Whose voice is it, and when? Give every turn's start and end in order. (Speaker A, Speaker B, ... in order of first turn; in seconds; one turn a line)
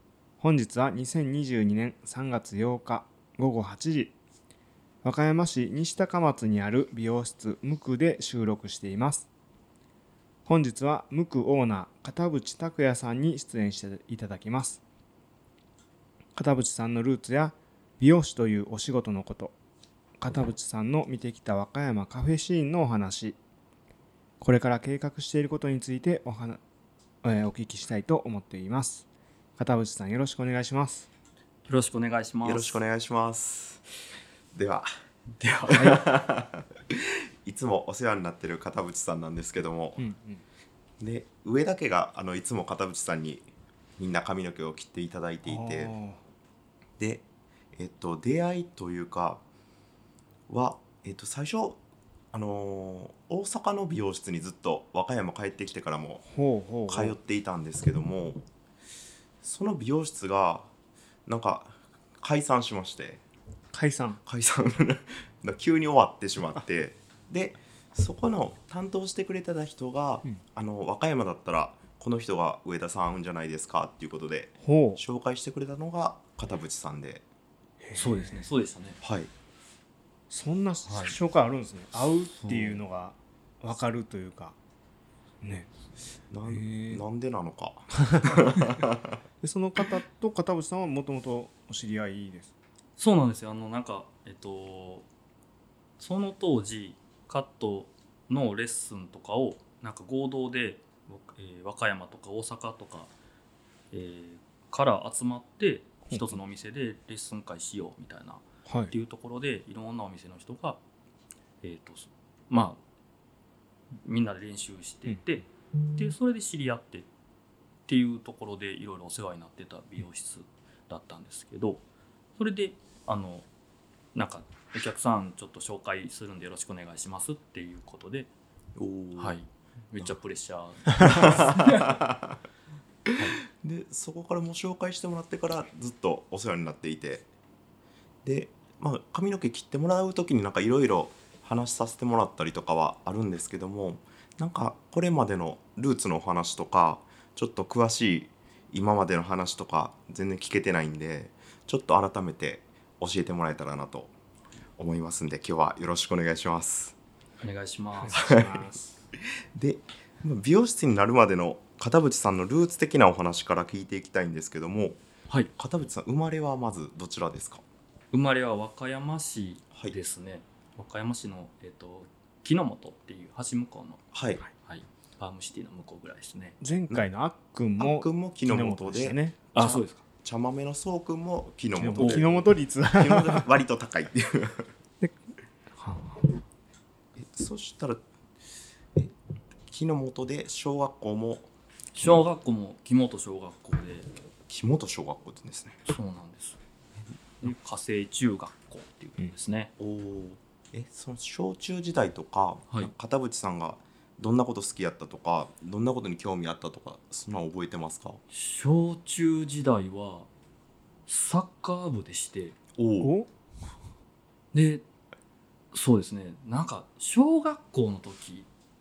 Speaker A: 0.4-4.1
Speaker A: 5.0-9.3
Speaker A: 10.5-14.8
Speaker A: 16.4-19.6
Speaker A: 20.2-23.4
Speaker A: 24.4-26.6
Speaker A: 27.2-31.1
Speaker B: 31.7-32.8
Speaker C: 32.4-33.8
Speaker C: 34.5-34.9
Speaker B: 35.4-36.1
Speaker C: 35.7-40.0
Speaker A: 35.7-36.0
Speaker A: 40.0-40.4
Speaker C: 41.0-43.5
Speaker C: 44.0-46.0
Speaker A: 45.5-46.2
Speaker C: 47.0-49.4
Speaker C: 50.5-51.8
Speaker C: 52.3-56.2
Speaker A: 56.3-57.2
Speaker C: 56.9-58.4
Speaker C: 59.4-60.7
Speaker C: 61.3-63.2
Speaker A: 63.7-64.2
Speaker C: 64.2-77.2
Speaker A: 74.6-75.0
Speaker A: 77.8-78.5
Speaker B: 78.0-79.0
Speaker C: 79.0-79.3
Speaker A: 80.3-84.5
Speaker B: 80.9-81.2
Speaker B: 82.4-82.8
Speaker A: 85.4-85.7
Speaker C: 86.3-89.2
Speaker A: 86.5-87.0
Speaker A: 89.4-92.5
Speaker B: 93.0-95.1
Speaker B: 96.0-103.1
Speaker B: 103.9-110.8
Speaker A: 106.1-106.4
Speaker A: 108.7-108.9
Speaker B: 111.6-112.8
Speaker B: 114.0-115.5
Speaker B: 116.0-117.1
Speaker B: 117.9-121.8
Speaker B: 122.4-123.5
Speaker B: 124.1-128.3
Speaker C: 128.8-129.4
Speaker B: 129.2-132.0
Speaker C: 131.0-132.4
Speaker C: 133.1-137.3
Speaker C: 138.2-154.1
Speaker C: 154.8-157.0
Speaker B: 157.4-158.7
Speaker A: 158.0-158.9
Speaker C: 158.1-158.5
Speaker C: 159.6-165.0
Speaker C: 165.6-167.6
Speaker B: 168.1-174.0
Speaker C: 174.1-174.4
Speaker B: 174.6-176.6
Speaker A: 176.6-179.4
Speaker C: 177.8-184.7
Speaker B: 179.5-180.1
Speaker A: 181.8-183.4
Speaker B: 182.0-182.2
Speaker A: 185.8-186.3
Speaker C: 187.2-188.0
Speaker C: 189.7-192.3
Speaker B: 191.9-194.1
Speaker C: 194.5-195.8
Speaker B: 195.9-196.6
Speaker B: 197.4-199.7
Speaker C: 199.8-208.2
Speaker B: 208.3-210.3
Speaker B: 211.1-212.6
Speaker C: 212.8-213.1
Speaker A: 213.0-213.3
Speaker B: 214.5-214.8
Speaker B: 215.7-218.5